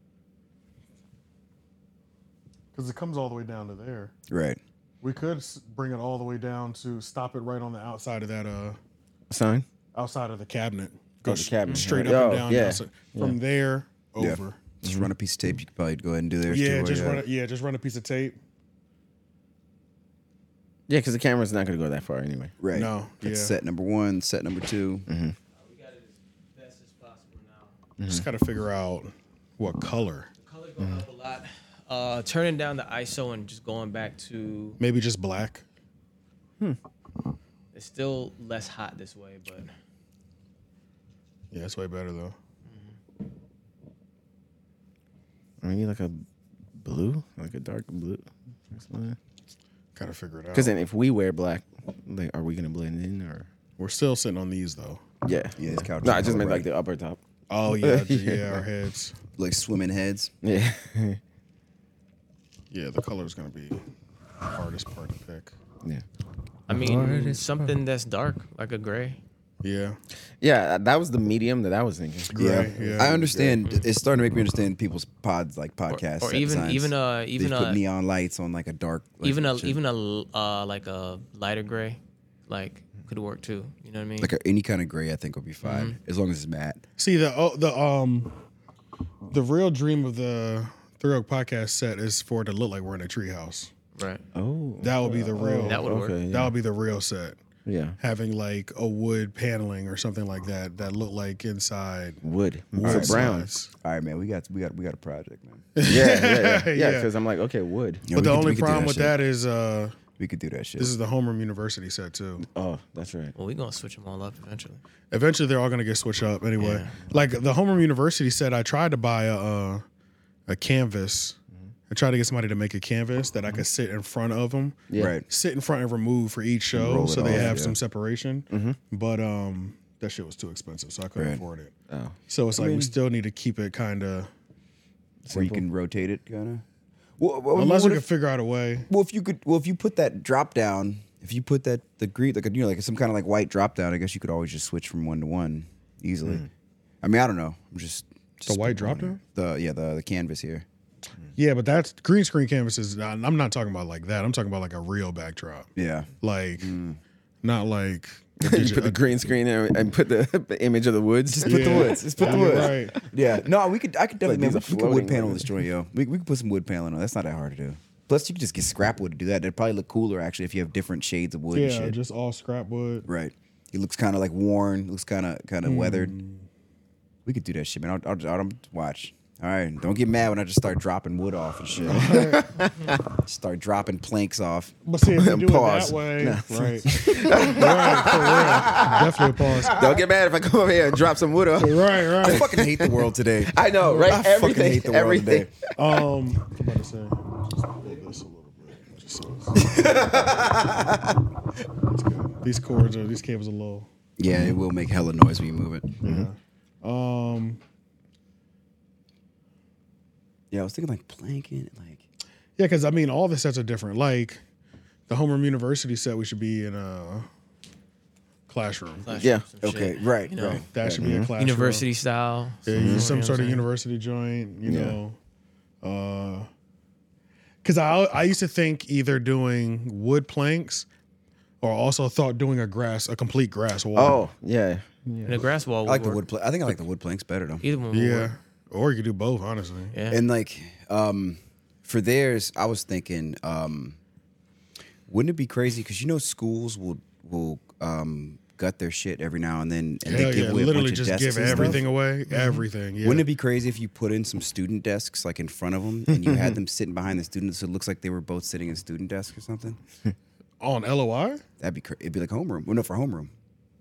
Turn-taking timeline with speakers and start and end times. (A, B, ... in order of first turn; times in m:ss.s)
0:02.8-0:04.1 A
0:04.3-0:04.6 B
0:05.0-0:08.8 A
0:09.3-0:09.7 C
0:10.0-0:14.6 A
0:11.2-0:13.4 C
0:14.2-0:17.2 B
0:14.8-0:15.1 C
0:16.5-0:18.4 A
0:20.9-0:22.5 C
0:22.6-0:25.1 B
0:22.7-0:23.6 A
0:25.1-0:25.4 C
0:25.5-0:27.8 D
0:28.0-0:28.3 C
0:28.1-0:30.3 A
0:30.4-0:34.8 D
0:34.8-0:35.6 A
0:37.7-0:39.7 D
0:41.5-0:42.4 A
0:42.7-0:43.0 D
0:45.6-0:46.2 C
0:46.8-0:49.2 C
0:50.0-0:50.7 A
0:50.5-0:53.5 C
0:53.8-0:55.0 A
0:55.2-0:58.7 C
0:55.6-0:56.7 B
0:57.5-0:59.2 A
0:59.4-1:00.3 B
1:00.4-1:01.2 C
1:02.7-1:03.8 A
1:04.5-1:05.5 A
1:06.7-1:09.2 D
1:06.7-1:07.4 C
1:06.7-1:07.4 A
1:09.6-1:10.0 A
1:10.4-1:13.6 C
1:12.3-1:13.3 A
1:12.4-1:19.8 B
1:15.9-1:17.8 D
1:19.2-1:24.3 D
1:24.2-1:26.8 B
1:25.6-1:26.0 D
1:27.0-1:28.3 A
1:29.3-1:33.7 A
1:34.0-1:34.2 D
1:34.4-1:36.5 C
1:34.8-1:37.4 A
1:35.6-1:36.2 D
1:37.7-1:38.0 C
1:38.0-1:42.2 A
1:42.2-1:43.5 C
1:42.7-1:43.7 A
1:42.8-1:43.2 B
1:43.8-1:45.6 B
1:45.8-1:47.1 A
1:45.8-1:48.0 C
1:48.1-1:49.2 B
1:48.1-1:50.0 A
1:50.2-1:50.9 B
1:50.8-1:52.5 A
1:52.4-1:53.3 C
1:53.4-1:54.8 D
1:55.1-1:59.8 A
1:56.6-1:56.9 D
2:00.5-2:01.4 A
2:01.9-2:11.7 A
2:05.0-2:05.2 B
2:06.8-2:07.8 B
2:07.2-2:07.6 C
2:08.5-2:08.8 C
2:11.2-2:11.4 B
2:11.9-2:12.2 C
2:12.3-2:14.3 A
2:12.6-2:12.9 B
2:15.2-2:15.6 C
2:15.3-2:16.6 B
2:17.2-2:18.1 B
2:17.6-2:18.9 A
2:18.9-2:26.5 B
2:27.0-2:30.6 B
2:28.5-2:29.2 A
2:31.4-2:35.7 A
2:35.8-2:37.0 B
2:36.2-2:36.7 A
2:37.4-2:39.0 A
2:38.4-2:42.9 C
2:41.3-2:52.0 B
2:41.4-2:43.0 A
2:44.2-2:45.5 C
2:51.5-2:53.1 A
2:53.1-2:56.2 B
2:55.6-2:56.5 A
2:57.3-3:02.2 B
3:01.8-3:03.0 C
3:01.9-3:02.4 A
3:03.2-3:04.7 B
3:04.8-3:09.9 A
3:05.1-3:09.2 C
3:09.7-3:16.0 C
3:11.6-3:12.5 A
3:12.2-3:15.5 B
3:15.8-3:20.5 A
3:19.6-3:21.2 B
3:21.9-3:23.9 A
3:24.2-3:26.0 B
3:26.0-3:27.6 A
3:26.0-3:26.3 C
3:30.5-3:32.0 B
3:32.6-3:34.4 A
3:35.1-3:37.3 A
3:38.5-3:39.2 A
3:39.0-3:40.6 D
3:39.1-3:39.4 C
3:39.6-3:41.1 B
3:40.7-3:41.9 A
3:40.8-3:41.3 C
3:41.4-3:43.7 D
3:42.7-3:45.2 A
3:42.7-3:43.1 C
3:44.6-3:45.0 C
3:45.8-3:46.5 A
3:47.6-3:50.9 A
3:51.6-3:54.2 A
3:54.0-3:54.9 C
3:55.2-3:56.2 D
3:55.9-3:57.6 B
3:57.6-3:58.3 D
3:57.9-3:59.9 A
3:59.9-4:00.2 D
4:00.1-4:04.0 B
4:05.1-4:11.9 B
4:10.1-4:10.6 C
4:10.1-4:13.3 A
4:11.4-4:11.8 C
4:13.0-4:19.8 B
4:16.1-4:16.6 C
4:20.6-4:21.4 A
4:21.6-4:23.3 B